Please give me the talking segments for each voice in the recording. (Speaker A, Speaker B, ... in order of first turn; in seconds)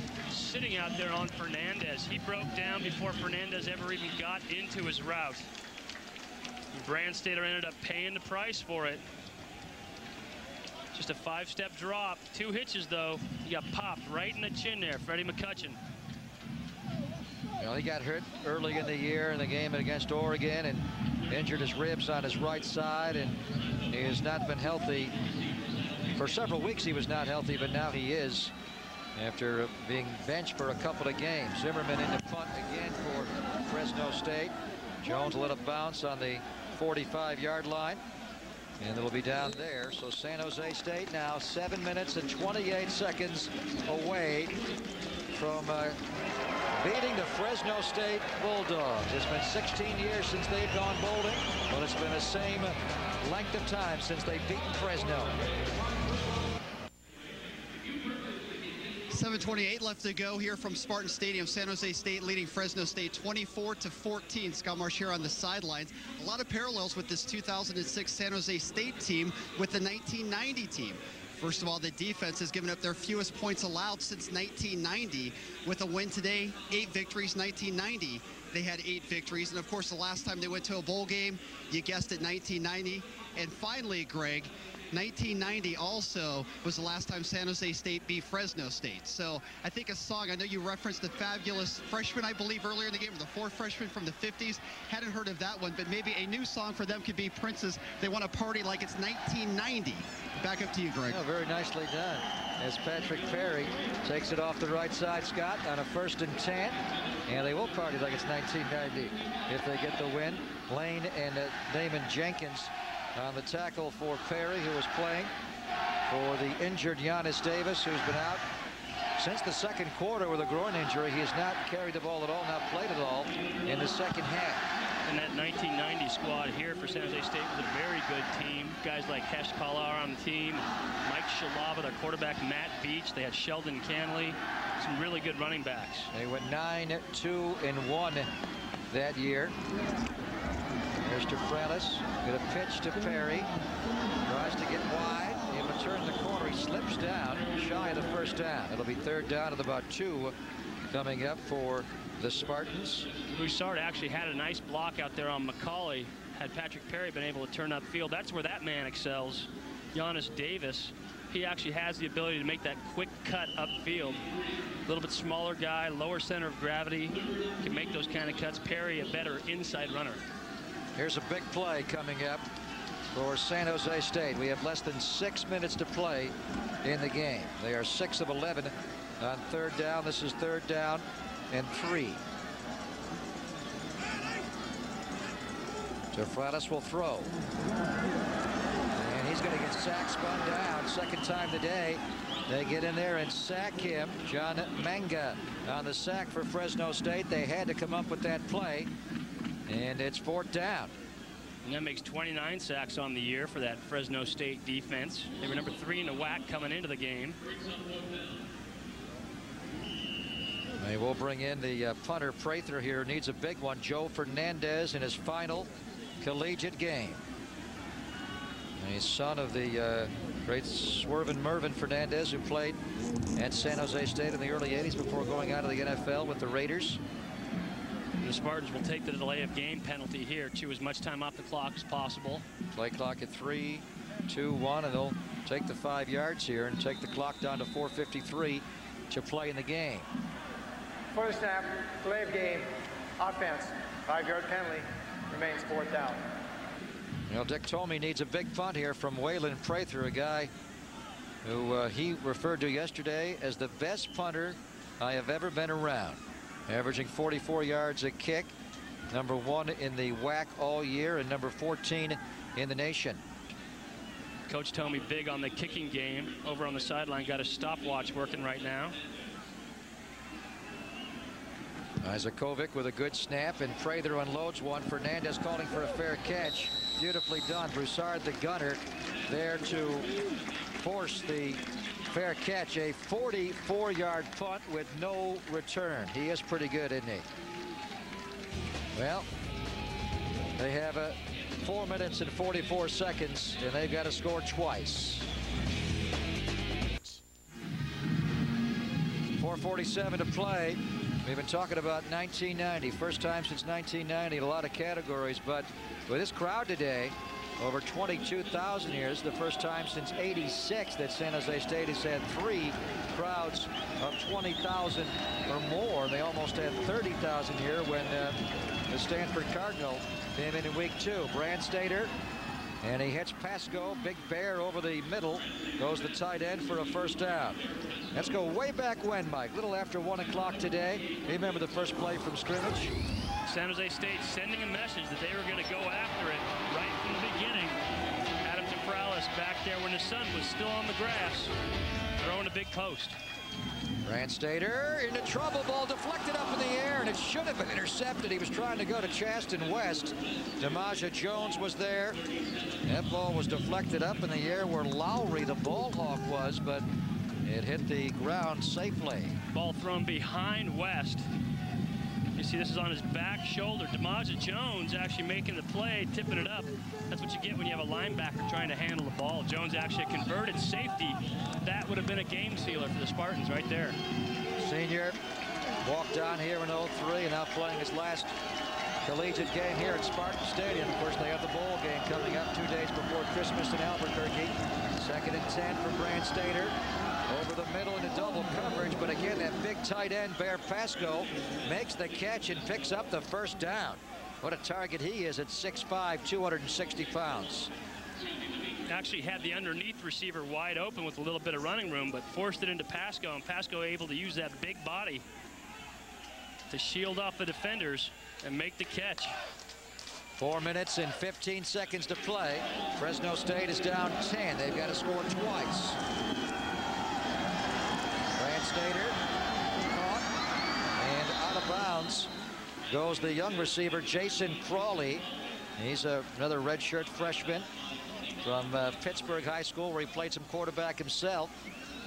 Speaker A: 0.3-5.5, 6.7-9.0, 10.9-15.8, 125.1-136.1, 153.2-164.2, 164.9-170.2, 201.6-207.4, 228.2-232.4, 264.5-269.0, 333.4-337.8, 338.4-341.5, 342.2-343.2, 359.5-361.2, 362.4-374.0, 398.9-405.2, 406.7-409.3
Speaker B: 17.6-25.1, 26.1-28.5, 29.1-38.0, 38.8-44.6, 45.3-46.0, 46.7-55.4, 101.1-115.3, 116.1-118.5, 119.2-124.7, 136.1-138.3, 138.9-139.5, 141.0-143.5, 144.2-150.3, 150.9-153.1, 170.9-172.4, 173.1-182.2, 186.1-187.3, 188.9-198.9, 199.7-200.9, 210.8-215.7, 216.2-217.2, 218.8-222.8, 223.3-227.0, 232.7-240.1, 247.3-250.5, 251.4-258.5, 259.1-263.2, 272.0-280.1, 280.8-287.3, 288.9-289.3, 290.6-295.3, 299.4-322.1, 322.8-327.6, 328.1-332.9, 344.0-352.2, 352.8-356.9, 357.4-359.4, 374.6-375.2, 375.8-378.3, 379.0-386.8, 387.3-397.7, 410.4-416.0, 418.4-419.2, 419.9-420.3, 420.9-422.3, 422.9-427.7, 428.4-431.5
Speaker C: 59.1-101.2
Speaker D: 241.1-246.2